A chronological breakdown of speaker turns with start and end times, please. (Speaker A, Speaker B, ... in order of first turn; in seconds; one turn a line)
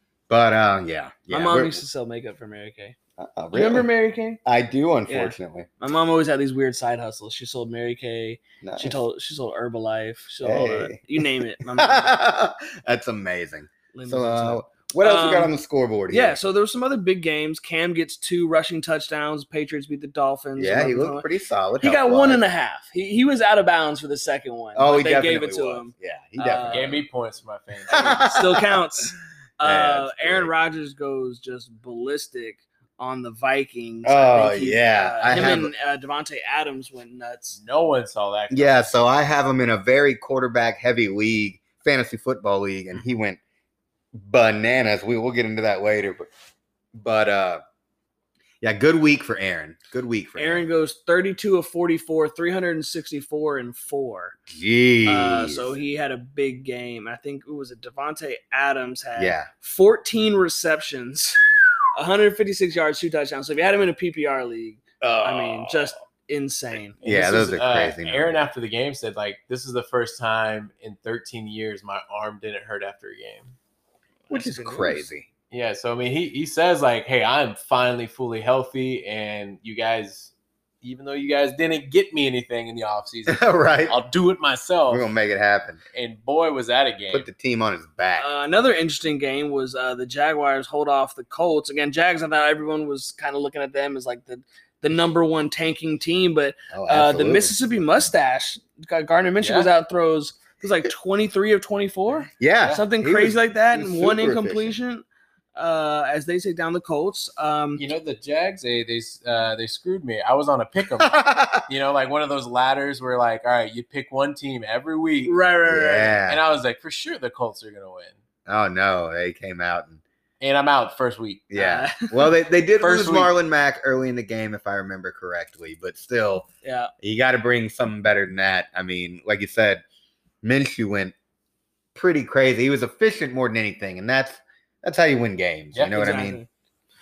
Speaker A: 0.3-1.8
Speaker B: 1.3-3.0
Speaker A: 3.2-3.9
Speaker B: 3.5-4.4
Speaker A: 4.5-5.7
Speaker B: 5.1-12.1
Speaker A: 8.6-9.0
Speaker A: 10.4-16.4
Speaker B: 13.9-15.5
Speaker B: 16.1-21.3
Speaker A: 20.6-22.5
Speaker B: 21.8-27.0
Speaker A: 24.8-27.0
Speaker C: 26.7-28.2
Speaker A: 27.9-28.8
Speaker B: 27.9-37.6
Speaker A: 29.6-30.5
Speaker A: 34.0-35.7
Speaker C: 37.6-38.9
Speaker A: 38.5-43.4
Speaker A: 44.2-46.3
Speaker A: 47.0-47.6
Speaker A: 48.6-50.6
Speaker B: 50.4-54.4
Speaker A: 54.5-55.8
Speaker B: 55.1-61.4
Speaker A: 59.2-59.5
Speaker B: 62.0-67.0
Speaker A: 65.0-66.0
Speaker A: 67.0-68.4
Speaker C: 67.0-73.5
Speaker B: 74.3-75.1
Speaker A: 74.3-75.3
Speaker C: 75.5-85.1
Speaker A: 83.3-84.0
Speaker A: 84.9-85.8
Speaker C: 85.9-87.3
Speaker A: 87.1-88.3
Speaker B: 88.2-105.0
Speaker A: 96.7-97.5
Speaker C: 99.4-99.7
Speaker A: 102.4-104.8
Speaker B: 105.6-107.8
Speaker C: 107.8-115.4
Speaker A: 111.0-111.7
Speaker B: 115.3-116.2
Speaker A: 115.7-116.4
Speaker C: 116.3-118.2
Speaker A: 118.5-120.0
Speaker C: 120.4-121.5
Speaker A: 121.5-126.5
Speaker B: 121.5-122.3
Speaker C: 122.8-123.3
Speaker B: 126.6-126.9
Speaker A: 127.0-129.8
Speaker A: 130.4-131.1
Speaker A: 131.9-136.4
Speaker B: 135.9-136.5